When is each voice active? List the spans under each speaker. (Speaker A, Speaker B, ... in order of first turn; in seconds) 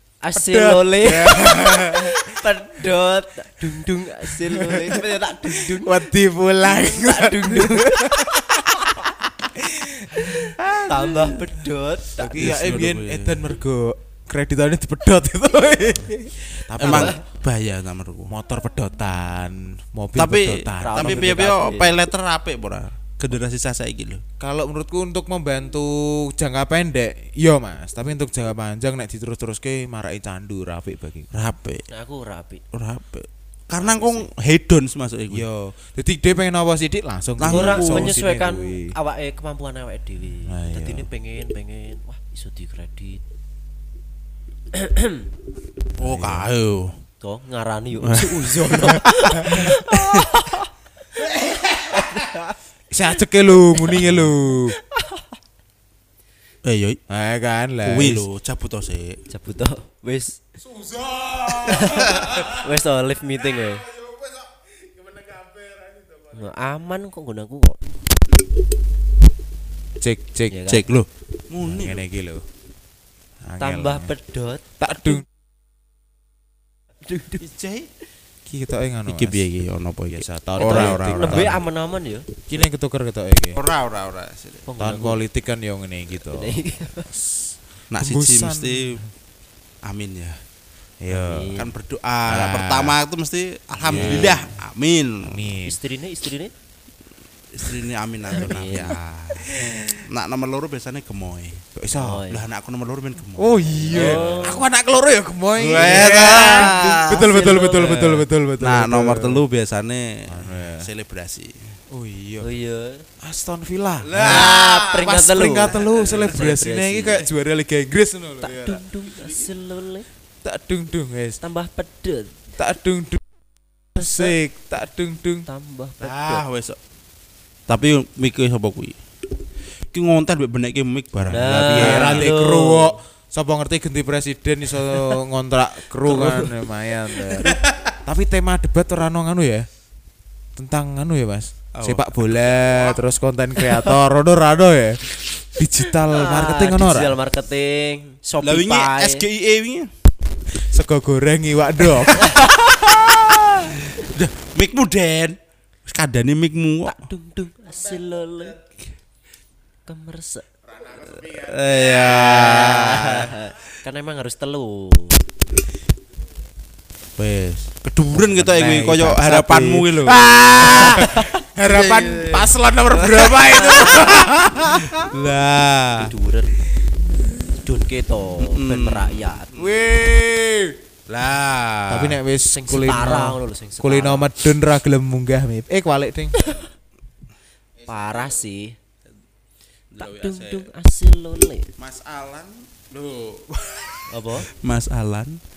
Speaker A: 0.2-6.0, 6.6-9.0, 10.2-12.5, 16.8-17.2, 20.8-22.0, 31.9-32.6, 33.8-34.3, 37.5-43.2, 44.7-45.3, 47.2-50.7, 51.9-52.5, 53.8-54.2, 54.8-55.3, 59.3-60.4, 61.5-63.9, 66.3-67.8, 70.5-70.8, 73.6-74.6, 77.0-77.4, 80.6-82.3, 84.7-85.2, 86.2-87.1, 91.1-91.7, 93.9-94.3, 95.6-96.5, 98.3-99.0, 101.9-102.4, 103.9-104.6, 106.2-108.2, 112.4-113.0, 114.2-117.2, 118.4-120.0, 121.4-122.3, 124.0-124.3, 125.5-126.4, 131.3-132.9, 136.1-136.5, 146.1-149.2, 152.2-152.6, 156.8-158.6, 159.8-160.4, 162.3-165.2, 170.6-171.3, 173.5-174.2, 176.0-176.6, 177.6-179.5, 182.5-184.3, 186.4-186.7, 187.9-188.8, 190.0-191.7, 194.1-194.5
Speaker B: 0.3-2.4, 4.3-10.9, 12.2-17.1, 18.3-21.4, 24.4-31.3, 35.3-38.9, 40.5-41.0, 46.0-46.5, 48.2-49.8, 52.9-54.8, 57.1-58.2, 60.8-62.5, 65.1-65.9, 70.0-70.6, 71.6-72.4, 73.5-74.1, 74.8-75.2, 78.5-79.5, 80.1-81.6, 82.5-83.6, 84.8-86.6, 87.1-89.0, 91.0-91.6, 92.3-93.0, 93.8-94.5, 95.2-95.8, 99.4-100.1, 101.8-102.2, 103.3-109.4, 110.3-110.9, 111.9-112.5, 113.2-118.8, 120.4-121.4, 122.6-123.2, 123.9-125.5, 131.2-139.7, 140.6-147.2, 150.7-152.4, 160.8-163.1, 168.3-175.1, 179.6-180.8, 181.9-186.3
Speaker C: 12.3-13.4, 16.8-18.3, 20.1-24.2, 31.3-31.8, 32.7-35.5, 37.4-38.1, 46.0-47.0, 49.9-50.3, 56.6-57.0, 57.8-59.2, 70.7-72.0, 77.4-77.9, 79.1-81.5, 83.5-84.6, 87.9-89.0, 89.8-90.4, 91.5-95.4, 97.5-101.6, 102.3-104.4, 105.5-111.8, 114.0-116.4, 126.0-126.8, 127.7-129.0, 129.9-132.3, 137.4-137.7, 141.7-143.0, 148.4-149.9, 152.0-157.1, 161.0-163.3, 167.2-171.1, 171.6-176.1, 178.4-179.7, 181.1-182.2, 189.9-190.7, 191.8-195.4